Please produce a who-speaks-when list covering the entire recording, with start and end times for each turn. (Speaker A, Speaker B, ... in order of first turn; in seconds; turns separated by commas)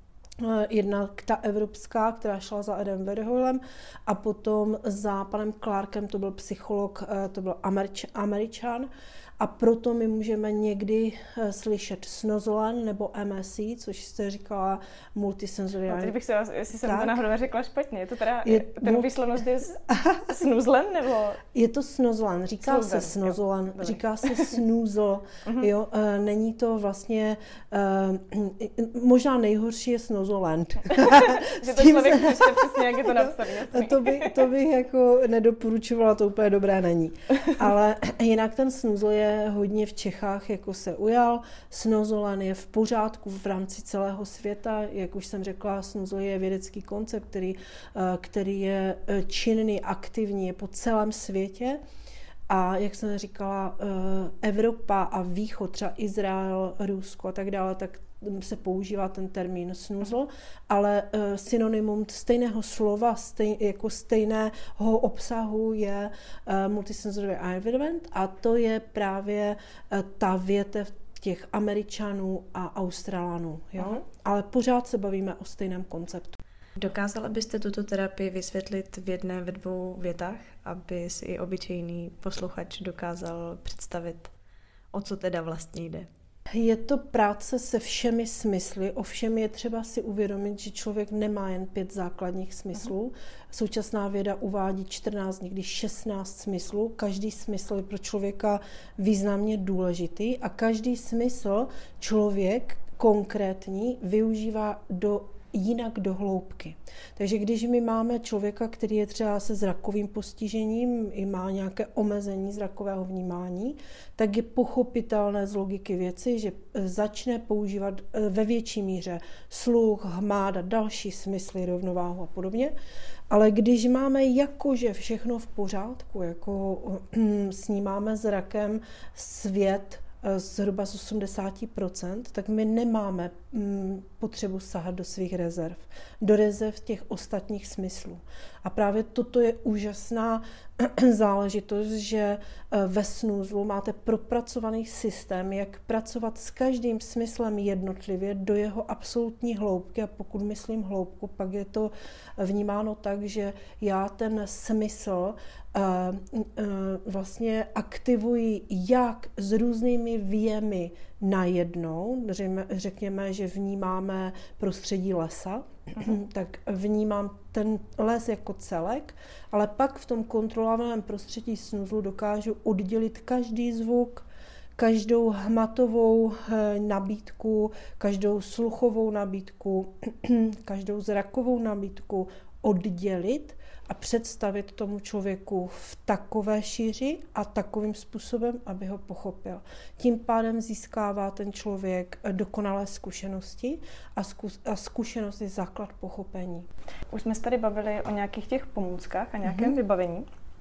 Speaker A: 0.4-16.1, Speaker B: 15.9-21.4, Speaker A: 16.8-17.2, Speaker A: 18.4-19.1, Speaker A: 19.9-20.3, Speaker A: 21.5-51.8, Speaker B: 22.5-24.5, Speaker B: 30.9-34.3, Speaker A: 52.5-76.4, Speaker B: 76.8-84.3, Speaker B: 84.9-86.1, Speaker A: 86.5-122.7, Speaker A: 123.3-174.2, Speaker A: 174.8-196.7, Speaker B: 197.1-200.3, Speaker A: 199.4-199.8